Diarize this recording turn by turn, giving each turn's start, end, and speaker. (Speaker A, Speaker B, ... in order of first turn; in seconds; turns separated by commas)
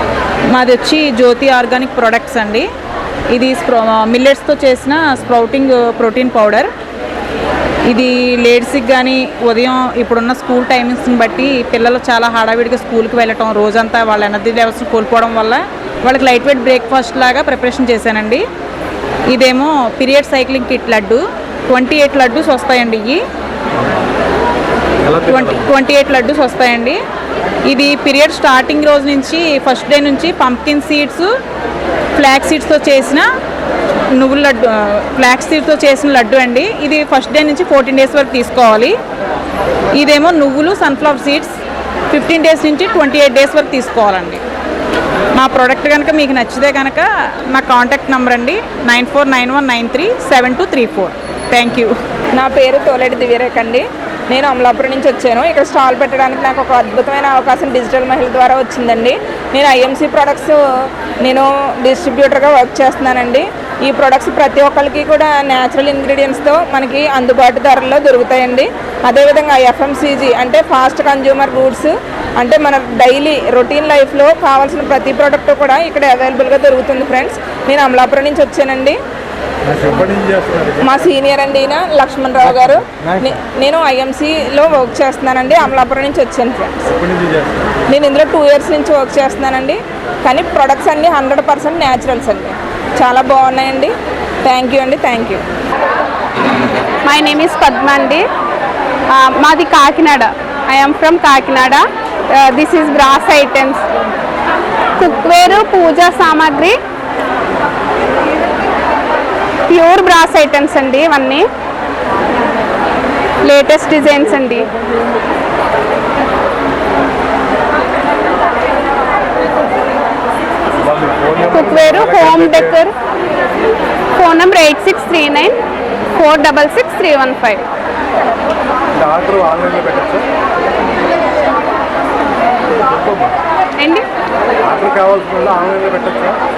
Speaker A: 0.5-2.7, Speaker A: 3.3-6.7, Speaker A: 7.9-18.4, Speaker A: 19.3-23.2, Speaker B: 25.0-25.7, Speaker A: 25.2-27.0, Speaker A: 27.7-31.3, Speaker A: 32.1-33.2, Speaker A: 34.2-39.0, Speaker A: 39.9-44.4, Speaker A: 45.4-51.9, Speaker C: 52.3-60.6, Speaker C: 61.2-79.0, Speaker B: 79.7-80.8, Speaker C: 80.8-86.8, Speaker B: 82.5-83.2, Speaker B: 86.9-87.7, Speaker C: 87.9-93.9, Speaker C: 94.4-95.4, Speaker D: 97.0-98.2, Speaker D: 99.1-101.8, Speaker D: 102.3-103.8, Speaker D: 105.0-106.8, Speaker D: 109.7-111.4, Speaker D: 113.4-114.7, Speaker B: 120.8-122.8, Speaker D: 121.5-122.9, Speaker D: 124.2-125.5, Speaker D: 126.1-127.6, Speaker B: 129.0-130.2, Speaker B: 132.9-133.3, Speaker D: 133.8-134.0, Speaker B: 134.6-136.3